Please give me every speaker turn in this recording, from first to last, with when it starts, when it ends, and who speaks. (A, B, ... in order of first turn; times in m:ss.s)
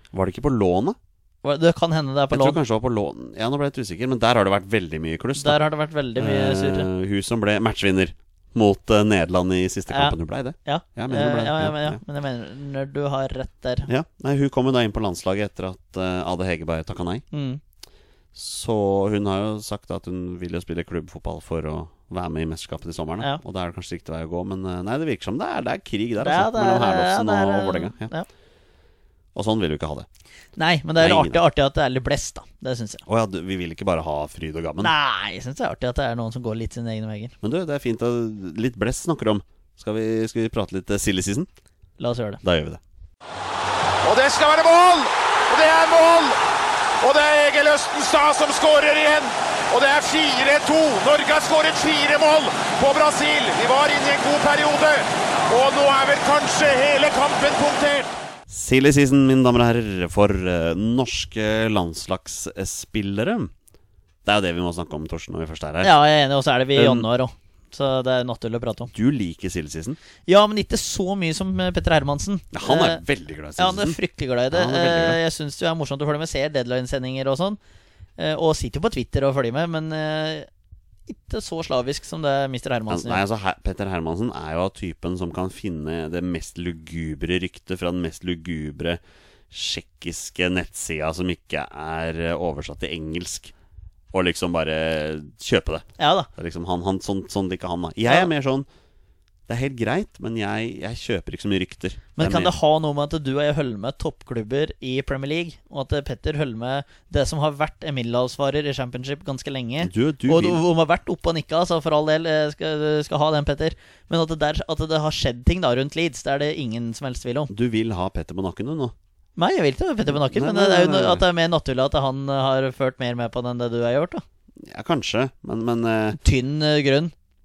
0:00.1-0:01.0 A
0:01.4-0:02.6 B
0:02.3-0:05.6 A
0:05.4-0:06.9 B
0:06.2-0:12.0 A
0:09.9-0:13.9 B
0:13.9-0:17.2 A
0:17.3-0:17.6 B
0:18.3-0:28.1 A
0:26.2-0:28.3 B
0:29.3-0:30.1 A
0:30.6-0:33.0 B
0:31.0-0:31.4 A
0:33.0-0:34.9 A
0:34.8-0:37.3 B
0:37.4-0:41.5 A
0:42.0-0:42.4 B
0:42.4-0:42.8 A
0:44.0-0:46.4 C
0:47.0-0:58.1 C
0:58.5-1:03.5 A
1:04.2-1:05.9 A
1:05.8-1:08.9 B
1:06.7-1:07.1 A
1:08.9-1:10.0 A
1:10.3-1:13.0 B
1:12.5-1:14.0 A
1:13.6-1:17.6 B
1:14.5-1:15.2 A
1:18.2-1:20.5 B
1:21.1-1:23.2 B
1:22.9-1:33.5 A
1:34.1-1:38.7 A
1:36.0-1:36.3 B
1:39.5-1:42.5 A
1:42.2-1:57.5 B
1:49.8-1:50.6 A
1:57.5-1:58.9 A
1:59.4-2:04.2 B
2:00.1-2:01.2 A
2:04.6-2:06.2 A
2:06.2-2:07.1 B